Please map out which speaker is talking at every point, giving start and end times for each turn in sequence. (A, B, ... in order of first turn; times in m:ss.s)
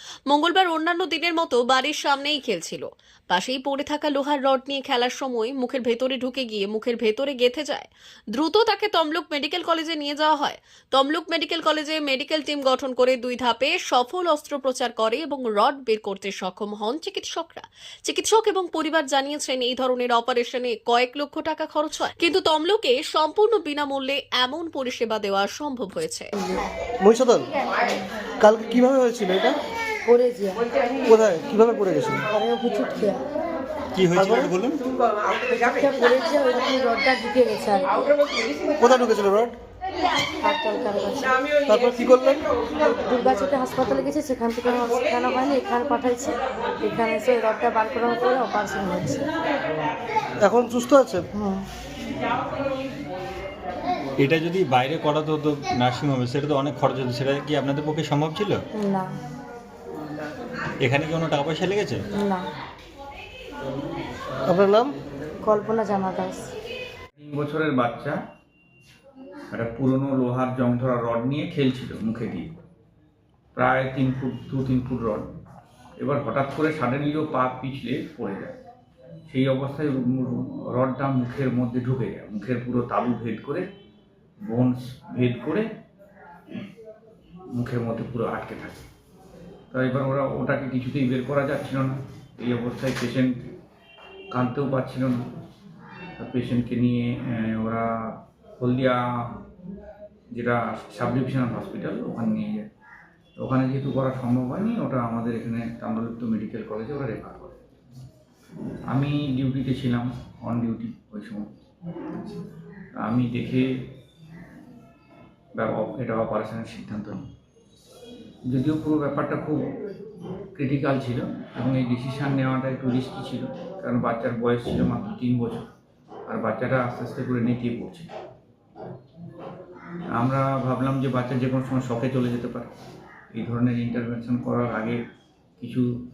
0:00.3-0:26.3 A
0:26.4-0:26.6 B
0:27.0-0:27.5 C
0:28.4-0:29.6 C
0:30.1-0:30.6 B
0:31.1-0:32.3 C
0:32.3-0:33.2 B
0:34.0-0:34.8 D
0:34.2-0:34.5 C
0:35.6-0:38.0 B
0:38.8-0:39.6 C
0:40.4-0:41.4 B
0:41.7-0:42.4 C
0:43.1-0:49.2 B
0:50.4-0:51.3 C
0:54.2-0:58.6 D
0:58.8-0:59.0 B
1:00.8-1:02.0 D
1:04.5-1:04.9 C
1:05.4-1:06.4 B
1:07.2-1:08.2 E
1:09.5-1:12.5 E
1:13.6-1:15.2 E
1:16.0-1:18.6 E
1:19.3-1:23.7 E
1:24.4-1:25.7 E
1:27.6-1:28.9 E
1:29.7-1:33.5 E
1:34.3-1:35.2 E
1:36.2-1:39.4 E
1:40.4-1:42.7 E
1:43.4-1:47.6 E
1:48.9-1:51.4 E
1:53.0-1:53.9 E
1:55.6-1:57.2 E
1:58.5-1:59.6 E
2:00.6-2:05.7 E
2:06.3-2:08.1 E
2:10.2-2:12.7 E
2:13.3-2:15.0 E
2:15.6-2:15.9 E